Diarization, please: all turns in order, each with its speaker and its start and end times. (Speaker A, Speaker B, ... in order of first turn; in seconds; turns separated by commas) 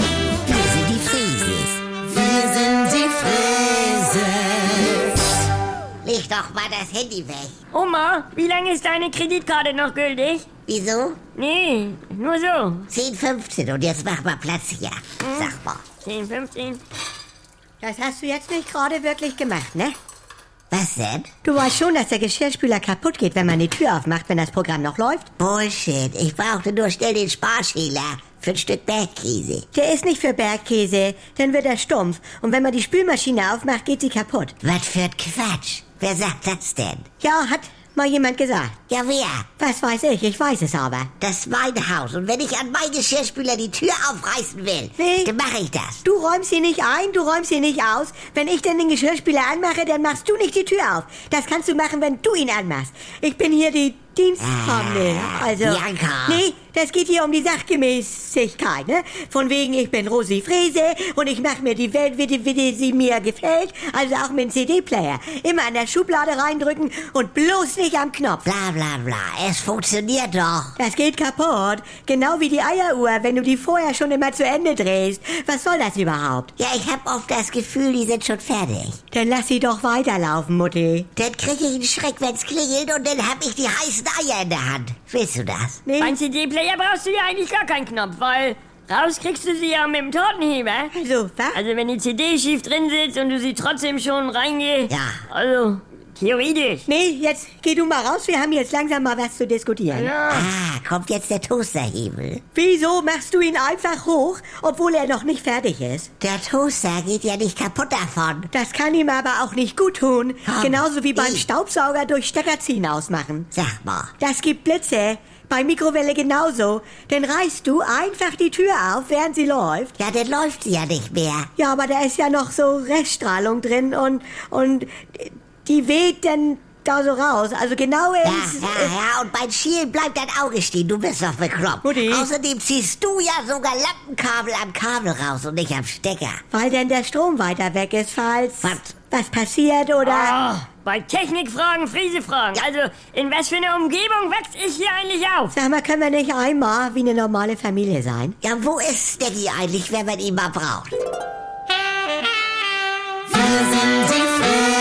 Speaker A: 0.5-5.3, Speaker A: 6.0-7.6, Speaker B: 7.7-10.5, Speaker A: 10.7-11.2, Speaker B: 11.4-12.9, Speaker A: 12.9-15.8, Speaker B: 15.2-15.5, Speaker B: 16.0-16.8, Speaker C: 17.8-19.9, Speaker A: 20.7-21.3, Speaker C: 21.4-25.3, Speaker A: 25.4-29.7, Speaker C: 29.7-34.5, Speaker A: 34.6-37.1, Speaker C: 37.2-38.8, Speaker A: 38.9-39.5, Speaker C: 39.6-41.1, Speaker A: 41.2-46.0, Speaker C: 45.0-45.3, Speaker C: 46.0-68.5, Speaker A: 54.4-56.4, Speaker A: 68.5-70.8, Speaker C: 70.8-76.5, Speaker A: 76.6-79.0, Speaker C: 79.1-81.1, Speaker A: 81.2-85.8, Speaker C: 85.9-86.2, Speaker B: 86.0-90.9, Speaker C: 90.9-91.6, Speaker B: 91.5-96.9, Speaker A: 94.9-95.2, Speaker C: 96.9-100.1, Speaker B: 99.9-100.5, Speaker A: 100.3-102.4, Speaker C: 102.5-106.1, Speaker A: 106.2-108.5, Speaker C: 108.5-113.5, Speaker A: 110.5-111.5, Speaker A: 113.5-114.1, Speaker C: 114.2-119.9, Speaker A: 120.0-121.5, Speaker C: 121.6-128.9, Speaker A: 128.2-136.4, Speaker C: 131.8-132.3, Speaker C: 136.5-140.4, Speaker A: 138.6-138.9, Speaker B: 140.0-145.5, Speaker C: 145.5-148.4, Speaker A: 148.4-150.9